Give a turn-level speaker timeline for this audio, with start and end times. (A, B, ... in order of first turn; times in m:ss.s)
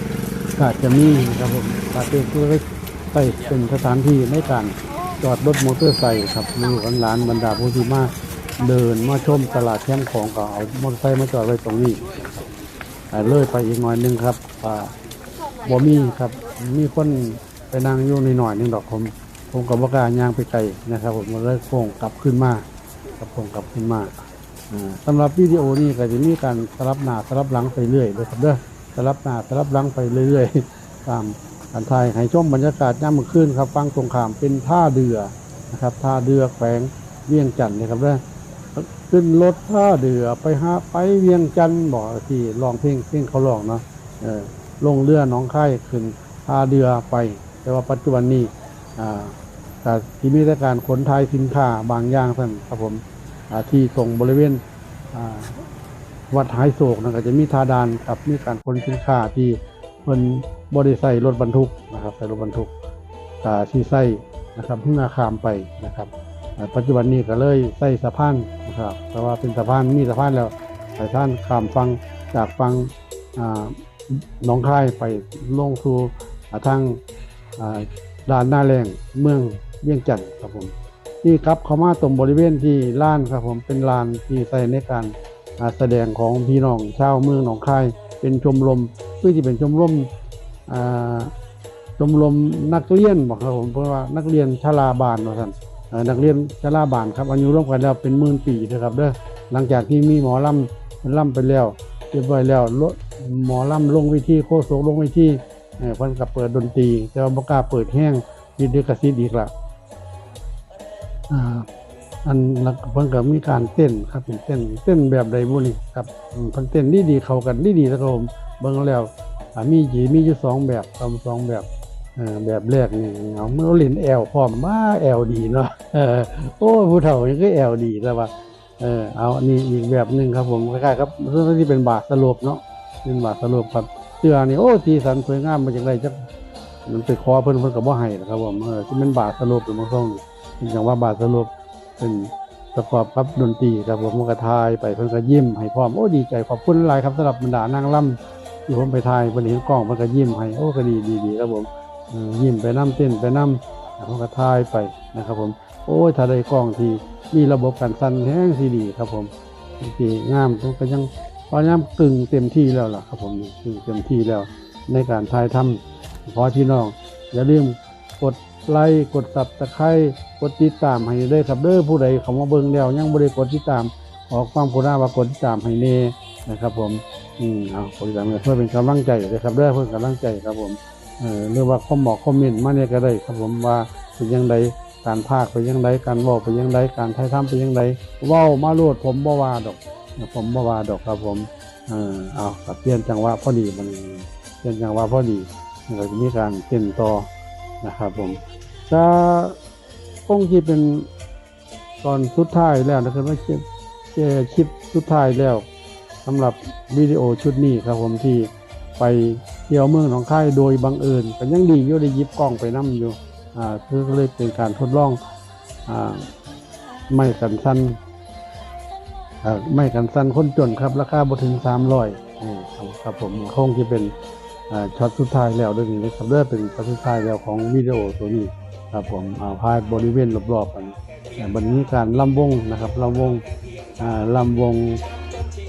0:00.6-0:12.2 A
0:13.1-0:14.9 A
0:15.6-0:22.6 A
0:23.2-0:38.2 A
0:38.8-0:55.6 A
0:56.3-1:02.7 A
1:03.4-1:17.0 A
1:17.6-1:30.1 A
1:30.7-1:31.3 A
1:32.0-1:49.5 A
1:51.3-1:51.7 A
1:52.2-2:16.2 A
2:16.9-3:17.3 A
3:17.8-3:18.4 A
3:18.9-3:19.6 A
3:20.3-3:21.1 A
3:22.0-3:23.6 A
3:24.1-3:25.6 A
3:26.2-3:35.2 A
3:35.9-3:36.3 A
3:37.1-3:38.0 A
3:39.4-3:44.1 A
3:44.7-3:53.4 A
3:54.0-3:55.0 A